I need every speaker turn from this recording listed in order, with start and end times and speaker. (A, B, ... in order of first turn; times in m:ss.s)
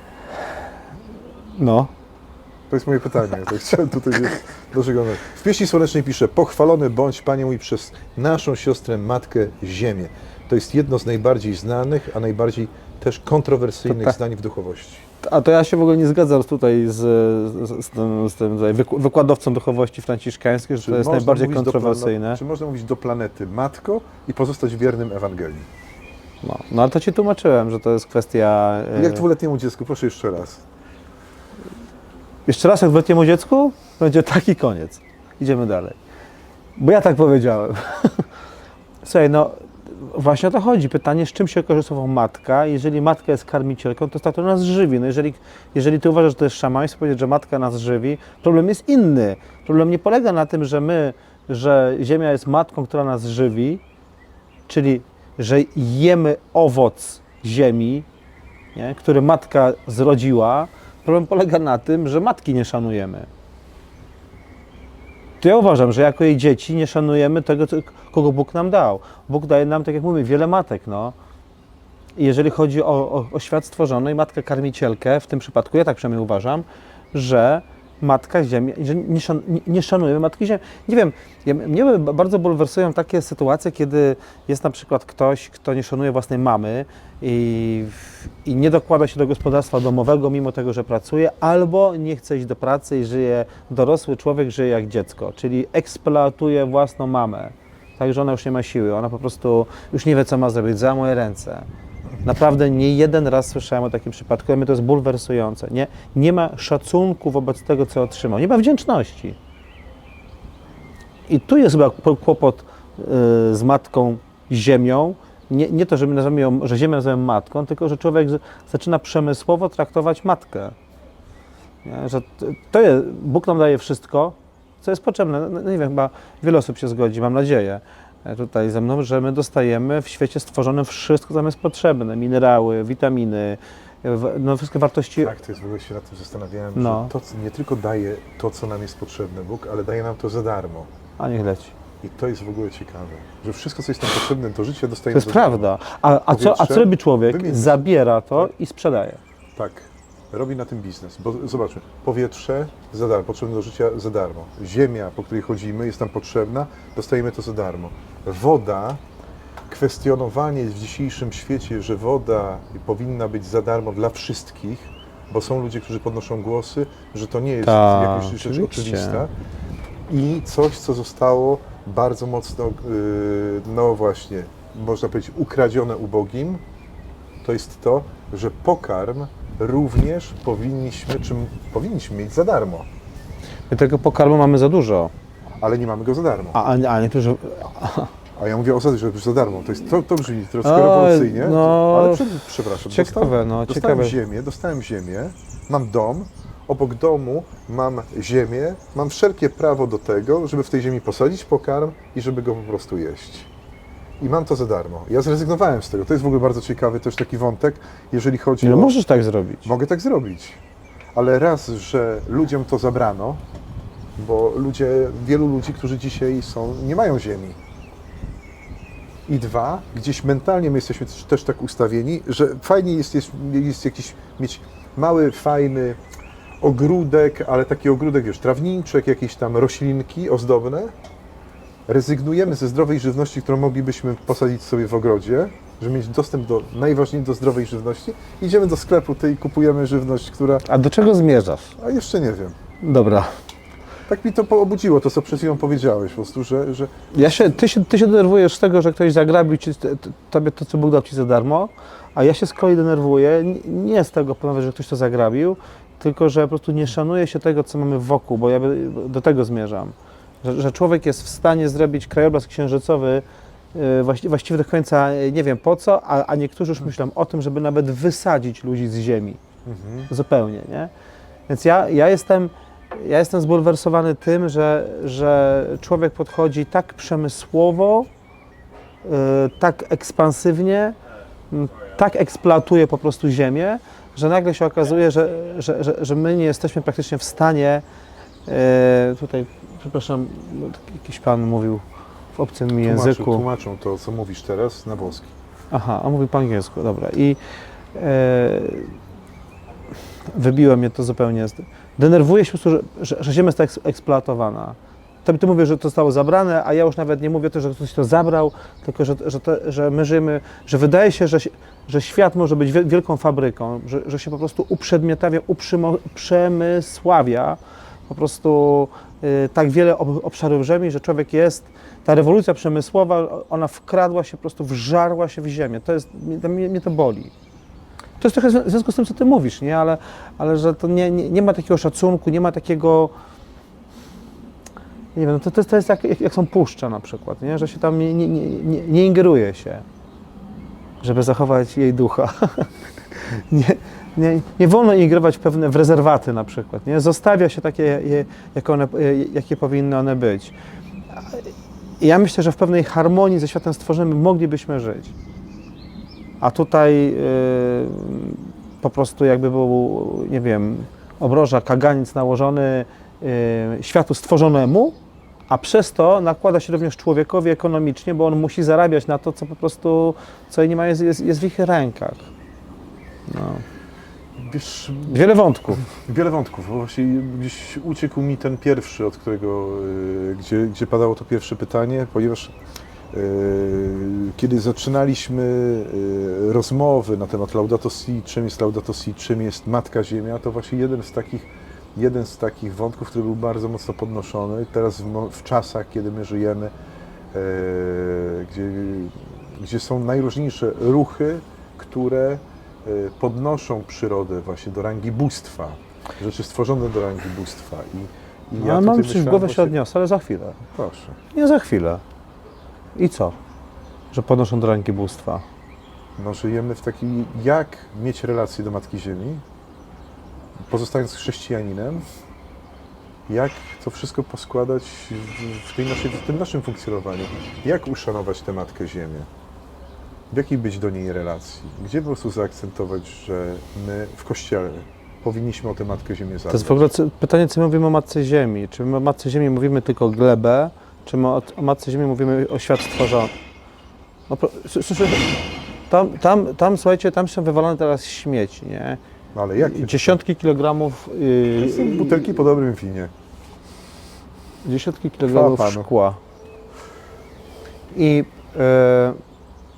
0:01.6-0:01.9 A
0:02.7-0:15.1 B
0:13.9-0:14.2 A
0:15.2-0:22.4 A
0:20.8-0:25.7 B
0:26.4-0:29.2 A
0:28.9-0:30.6 B
0:32.5-0:36.0 A
0:36.8-0:38.3 A
0:39.0-0:53.8 A
0:54.7-0:58.1 A
0:58.8-1:03.3 A
1:05.4-1:11.2 A
1:12.2-1:41.7 A
1:42.2-1:49.4 A
1:51.3-2:00.8 A
2:01.8-2:15.3 A
2:15.2-2:20.9 B
2:16.8-2:17.1 A
2:21.2-2:21.8 A
2:22.0-2:25.7 B
2:25.1-2:29.2 A
2:26.3-2:27.8 B
2:29.6-2:39.0 B
2:39.7-2:49.3 B
2:47.7-2:49.2 A
2:50.1-2:56.6 B
2:57.4-3:02.9 B
3:03.7-3:05.1 A
3:05.6-3:06.6 B
3:06.5-3:08.1 A
3:08.4-3:23.5 B
3:10.6-3:12.3 A
3:12.9-3:14.2 A
3:24.2-3:29.0 B
3:28.6-3:29.7 A
3:29.6-3:30.6 B
3:31.1-3:33.4 B
3:34.2-3:37.6 B
3:39.3-3:46.0 B
3:46.6-3:50.9 B
3:51.9-4:00.7 B
4:00.7-4:01.8 A
4:01.8-4:02.6 B
4:02.8-4:03.3 A
4:04.1-4:06.9 B
4:07.1-4:29.4 A
4:29.6-4:30.1 B
4:30.1-4:30.9 A
4:31.5-4:38.1 A
4:39.0-4:41.0 A
4:41.5-4:47.8 A
4:48.5-4:51.8 A
4:52.4-4:53.4 A
4:52.8-4:55.3 B
4:55.7-4:57.4 A
4:58.0-4:59.0 A
5:00.3-5:17.6 A
5:18.1-5:27.3 A
5:28.2-5:33.1 A
5:35.2-5:39.8 A
5:41.0-5:50.5 A
5:51.1-5:51.5 A
5:52.0-5:55.1 A
5:56.4-6:05.0 A
6:05.5-6:12.3 A
6:13.3-6:13.6 A
6:14.4-6:15.3 B
6:15.1-6:15.9 A
6:15.8-6:22.5 B
6:23.1-6:36.7 B
6:37.3-6:49.8 B
6:48.6-6:50.6 A
6:50.6-6:51.2 B
6:51.3-6:52.0 A
6:53.0-6:53.4 A
6:54.1-6:55.4 A
6:56.2-6:59.4 B
7:00.6-7:02.1 B
7:03.3-7:09.3 B
7:10.3-7:16.9 B
7:16.5-7:23.3 A
7:24.3-7:25.3 A
7:25.9-7:29.0 A
7:29.3-7:30.2 B
7:29.6-7:32.5 A
7:31.6-7:33.1 B
7:34.6-7:36.2 A
7:35.3-7:35.9 B
7:37.9-7:39.2 A